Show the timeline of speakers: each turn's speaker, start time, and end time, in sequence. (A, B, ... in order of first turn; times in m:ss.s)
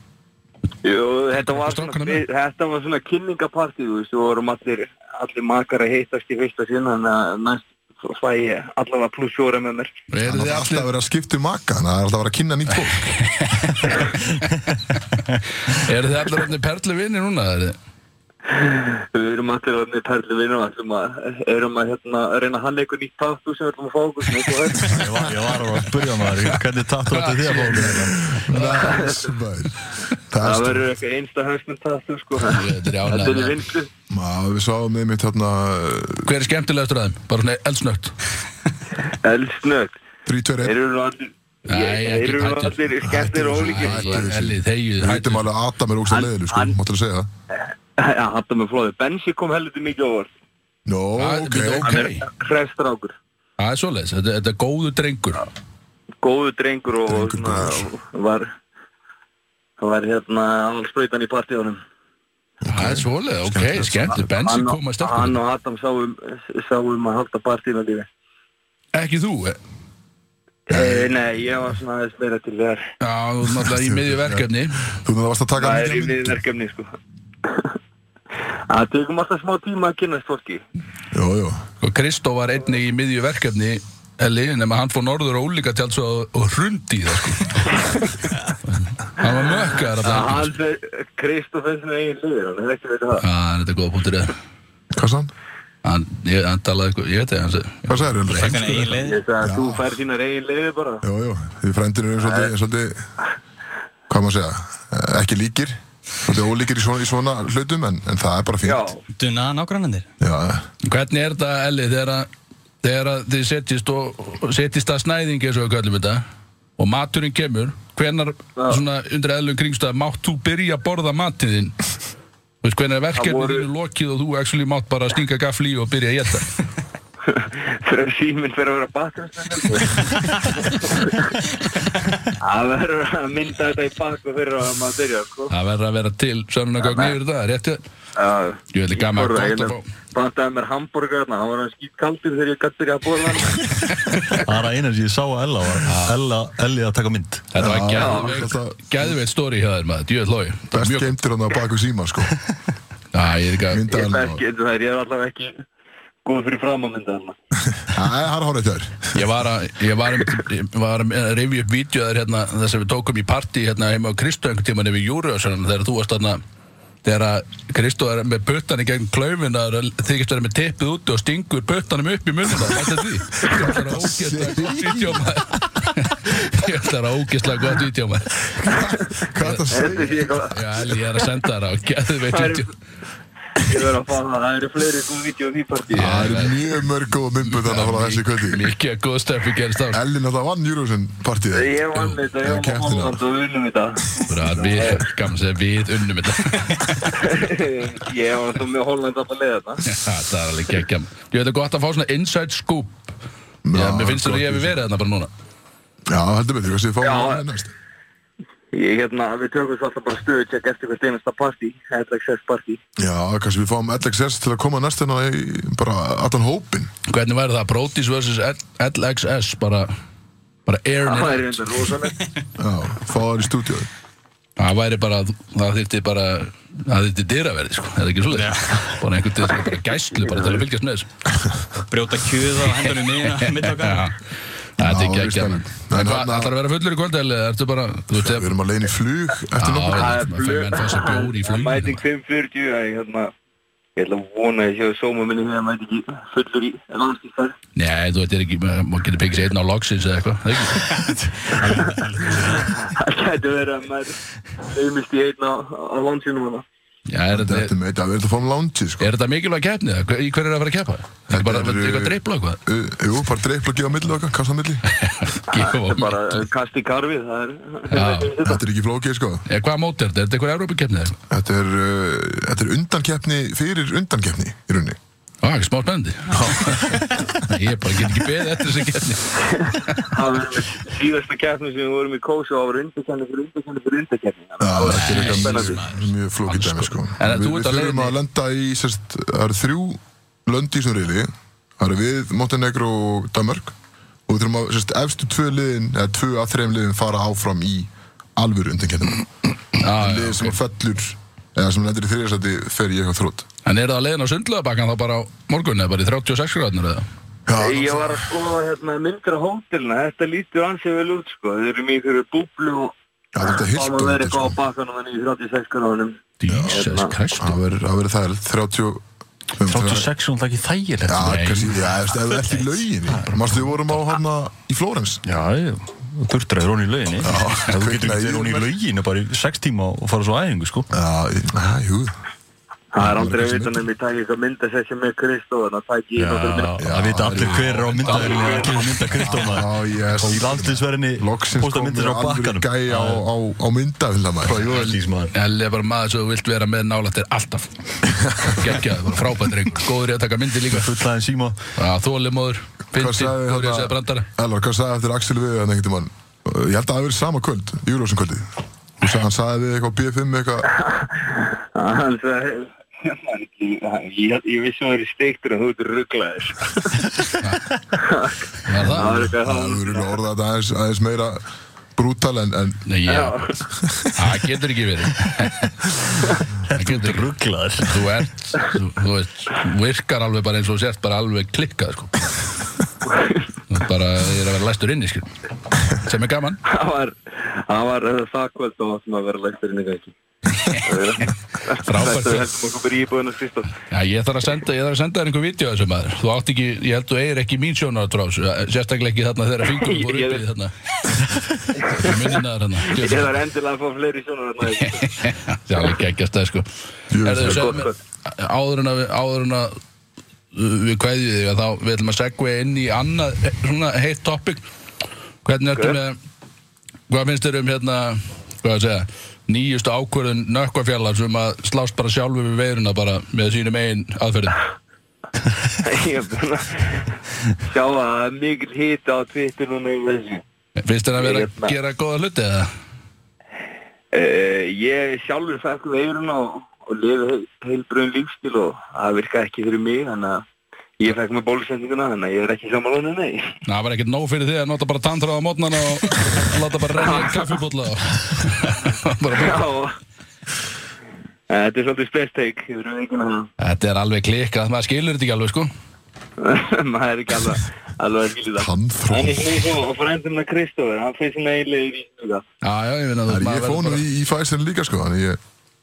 0:00.8-0:09.9 A
0:01.3-0:02.2 B
0:10.1-0:10.9 B
0:10.2-0:13.0 C
0:12.7-0:15.0 B
0:15.7-0:17.8 B
0:18.5-0:25.1 A
0:24.9-0:28.2 D
0:27.1-0:29.0 B
0:28.1-0:30.9 C
0:28.6-0:29.3 A
0:30.4-0:33.9 A
0:32.4-0:33.6 B
0:34.1-0:36.3 C
0:36.2-0:38.2 B
0:39.1-0:39.9 A
0:40.3-0:40.8 C
0:40.6-0:44.3 A
0:41.7-0:42.8 B
0:43.0-0:47.3 C
0:43.6-0:45.4 B
0:46.1-0:46.8 A
0:47.5-0:50.3 A
0:50.9-0:51.9 C
0:51.2-0:52.3 B
0:51.8-0:53.2 A
0:53.6-0:55.4 B
0:56.2-0:58.5 A
0:57.1-0:57.9 C
0:59.8-1:01.8 A
1:02.6-1:04.3 C
1:02.7-1:05.4 B
1:04.4-1:08.1 A
1:08.9-1:09.6 B
1:10.7-1:12.8 A
1:10.7-1:11.2 C
1:13.0-1:14.9 B
1:13.5-1:14.4 C
1:15.0-1:16.4 C
1:15.6-1:16.9 A
1:18.7-1:20.6 A
1:21.1-1:21.6 C
1:21.8-1:27.8 B
1:27.8-1:28.2 A
1:28.7-1:30.6 B
1:30.0-1:33.2 A
1:33.2-1:34.4 B
1:34.9-1:35.3 C
1:35.8-1:38.9 B
1:37.9-1:38.8 C
1:38.3-1:39.2 E
1:39.0-1:41.0 A
1:39.4-1:39.8 C
1:41.0-1:43.0 C
1:42.2-1:42.5 A
1:44.1-1:48.9 C
1:48.6-1:49.0 A
1:49.2-1:50.1 E
1:50.2-1:50.6 C
1:50.8-1:52.3 B
1:52.8-1:56.2 B
1:56.8-2:01.8 B
1:58.6-1:58.8 A
2:02.6-2:06.5 B
2:03.2-2:03.7 A
2:07.3-2:11.5 A
2:12.4-2:15.5 A
2:15.5-2:17.8 B
2:16.8-2:17.2 A
2:18.2-2:23.8 A
2:18.7-2:19.8 B
2:24.1-2:24.4 B
2:24.4-2:27.5 D
2:25.8-2:26.2 B
2:27.5-2:31.2 B
2:27.6-2:29.1 C
2:27.9-2:28.4 A
2:30.7-2:32.4 C
2:33.1-2:33.8 B
2:33.7-2:34.4 C
2:33.9-2:35.5 A
2:36.2-2:37.4 A
2:37.8-2:39.2 C
2:39.1-2:46.4 B
2:47.0-2:58.6 B
2:53.6-2:55.3 C
2:58.6-3:00.6 C
2:59.4-2:59.7 B
2:59.7-3:00.5 A
3:00.5-3:02.7 B
3:02.3-3:02.6 A
3:03.6-3:06.2 A
3:05.9-3:06.6 B
3:06.0-3:08.6 C
3:07.4-3:10.0 B
3:09.9-3:11.8 C
3:11.5-3:15.0 A
3:12.4-3:13.2 C
3:14.3-3:17.2 B
3:17.1-3:19.8 A
3:19.8-3:23.1 B
3:23.6-3:24.8 C
3:23.7-3:25.3 B
3:26.1-3:27.7 C
3:27.0-3:27.4 A
3:28.7-3:32.8 A
3:33.0-3:36.9 C
3:37.1-3:39.9 B
3:40.7-3:41.9 B
3:41.0-3:42.1 A
3:42.6-3:43.9 C
3:44.6-3:51.1 B
3:48.3-3:49.0 E
3:49.4-3:49.7 A
3:50.2-3:50.6 A
3:51.8-3:54.1 E
3:52.8-3:54.2 B
3:54.8-3:56.5 C
3:54.8-3:58.6 B
3:58.2-4:00.2 C
3:59.6-4:02.0 B
3:59.9-4:03.3 A
4:04.0-4:07.6 A
4:07.8-4:11.1 B
4:11.6-4:16.6 A
4:11.8-4:12.4 E
4:17.1-4:17.7 B
4:17.3-4:19.1 C
4:19.0-4:22.6 B
4:21.3-4:24.8 C
4:25.0-4:26.5 B
4:25.5-4:28.6 A
4:27.9-4:28.4 B
4:28.4-4:29.4 C
4:29.5-4:31.2 B
4:31.3-4:35.0 C
4:35.4-4:39.3 B
4:36.3-4:37.3 C
4:39.4-4:45.8 A
4:44.6-4:51.3 C
4:44.9-4:45.6 B
4:45.0-4:46.0 E
4:46.5-4:48.2 B
4:51.8-4:53.7 C
4:54.3-5:03.4 C
4:59.8-5:00.6 B
5:03.7-5:07.0 B
5:07.5-5:08.3 C
5:07.6-5:17.1 A
5:13.4-5:14.6 C
5:16.4-5:17.6 B
5:16.5-5:16.8 C
5:17.4-5:19.0 C
5:19.6-5:20.1 C
5:19.7-5:21.9 D
5:21.0-5:25.2 C
5:21.2-5:21.7 B
5:25.3-5:30.9 D
5:27.2-5:28.7 C
5:30.9-5:32.1 C
5:32.9-5:36.8 A
5:33.0-5:33.8 C
5:36.2-5:43.2 D
5:36.8-5:38.3 C
5:38.0-5:38.9 A
5:39.2-5:44.8 C
5:44.5-5:45.3 D
5:44.6-5:47.7 B
5:48.1-5:48.6 C
5:48.3-5:51.0 B
5:50.7-5:51.6 D
5:51.8-5:54.3 B
5:52.9-5:58.5 C
5:59.0-6:00.7 C
6:00.9-6:07.0 A
6:07.4-6:07.7 B
6:08.0-6:10.2 A
6:08.7-6:09.3 B
6:08.9-6:11.4 C
6:12.0-6:12.8 C
6:12.9-6:13.4 B
6:13.1-6:13.6 A
6:13.7-6:14.1 C
6:14.2-6:15.7 B
6:16.7-6:22.3 B
6:16.7-6:18.2 D
6:23.1-6:23.4 A
6:23.7-6:25.3 B
6:25.9-6:26.6 B
6:26.7-6:30.1 A
6:30.6-6:30.8 B
6:30.8-6:33.7 A
6:31.8-6:32.5 B
6:33.9-6:40.7 B
6:39.7-6:40.4 A
6:41.8-6:42.3 A
6:41.9-6:43.3 B
6:42.9-6:45.2 A
6:44.7-6:46.6 B
6:47.1-6:47.8 C
6:47.2-6:49.7 B
6:47.4-6:47.9 A
6:50.5-6:54.6 B
6:55.4-6:56.2 B
6:57.1-7:04.6 B
7:05.8-7:10.4 A
7:10.8-7:12.7 B
7:11.2-7:11.8 A
7:14.1-7:20.4 A
7:21.0-7:23.5 A
7:23.7-7:29.6 B
7:27.0-7:27.6 A
7:29.4-7:29.9 A
7:31.5-7:33.5 A
7:33.6-7:35.7 B
7:36.4-7:42.4 A
7:38.6-7:39.8 C
7:42.6-7:44.1 B
7:43.3-7:45.4 C